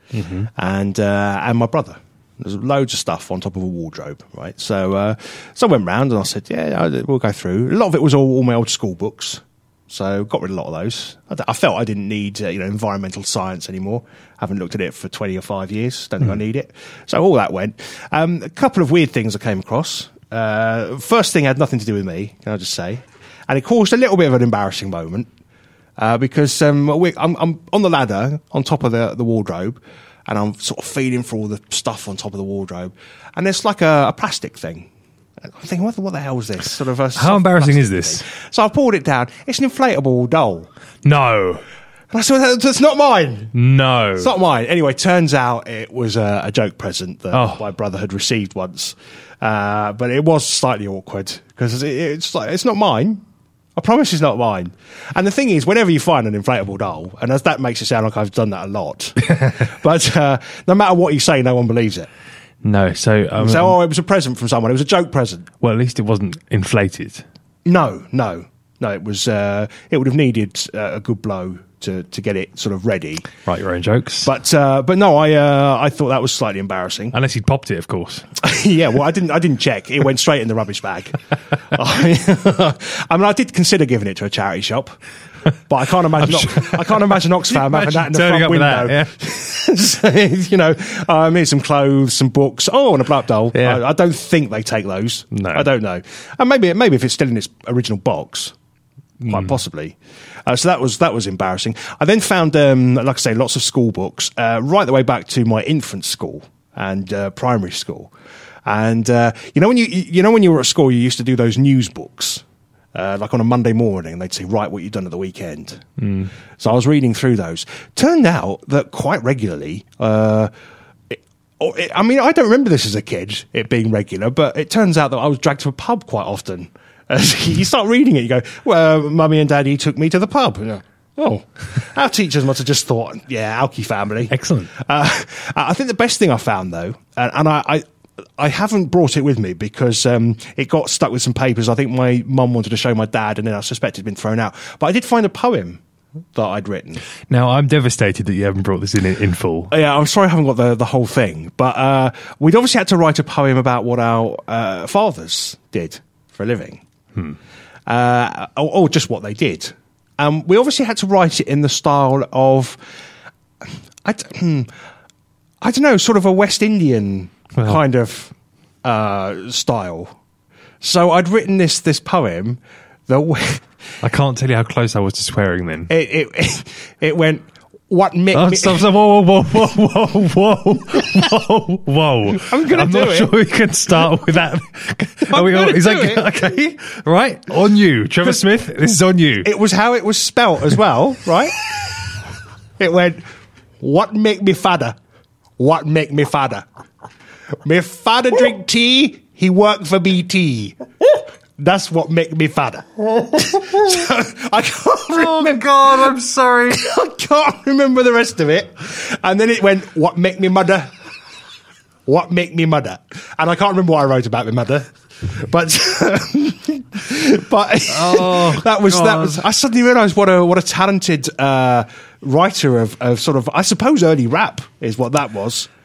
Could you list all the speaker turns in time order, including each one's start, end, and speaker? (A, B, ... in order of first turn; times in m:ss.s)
0:00.1-0:00.5 A
0:00.6-0:25.3 B
0:26.0-0:34.9 B
0:35.4-0:40.7 B
0:37.2-0:38.3 A
0:41.0-0:41.6 A
0:42.1-0:43.5 B
0:43.5-0:44.3 A
0:44.2-0:53.2 B
0:47.3-0:47.6 A
0:53.8-1:02.1 B
1:02.6-1:03.8 A
1:03.4-1:05.5 B
1:05.6-1:07.2 A
1:07.6-1:13.3 B
1:13.4-1:14.3 A
1:14.2-1:17.2 B
1:17.1-1:18.3 A
1:18.4-1:21.2 B
1:21.7-1:25.0 B
1:25.7-1:38.5 B
1:26.2-1:29.1 A
1:33.5-1:33.8 A
1:35.3-1:35.7 A
1:39.2-1:39.6 A
1:39.3-1:48.1 B
1:48.7-1:52.4 B
1:52.9-1:55.9 B
1:56.0-1:56.3 A
1:56.6-2:00.5 B
2:01.1-2:17.8 B
2:14.3-2:14.7 A
2:18.4-2:25.8 B
2:26.4-2:27.0 B
2:27.3-2:29.7 A
2:29.7-2:36.8 B
2:37.9-2:42.8 B
2:44.0-2:44.7 B
2:45.6-2:48.3 B
2:48.8-2:50.1 B
2:50.8-2:53.6 B
2:54.0-2:55.9 A
2:55.9-2:58.8 B
2:58.3-3:09.5 A
3:02.3-3:03.3 B
3:05.3-3:06.3 B
3:09.4-3:11.6 B
3:12.8-3:13.2 B
3:13.8-3:15.0 B
3:15.6-3:16.6 B
3:17.6-3:20.8 B
3:21.6-3:26.2 B
3:25.2-3:26.8 A
3:26.7-3:30.9 B
3:32.1-3:45.7 B
3:37.9-3:39.4 A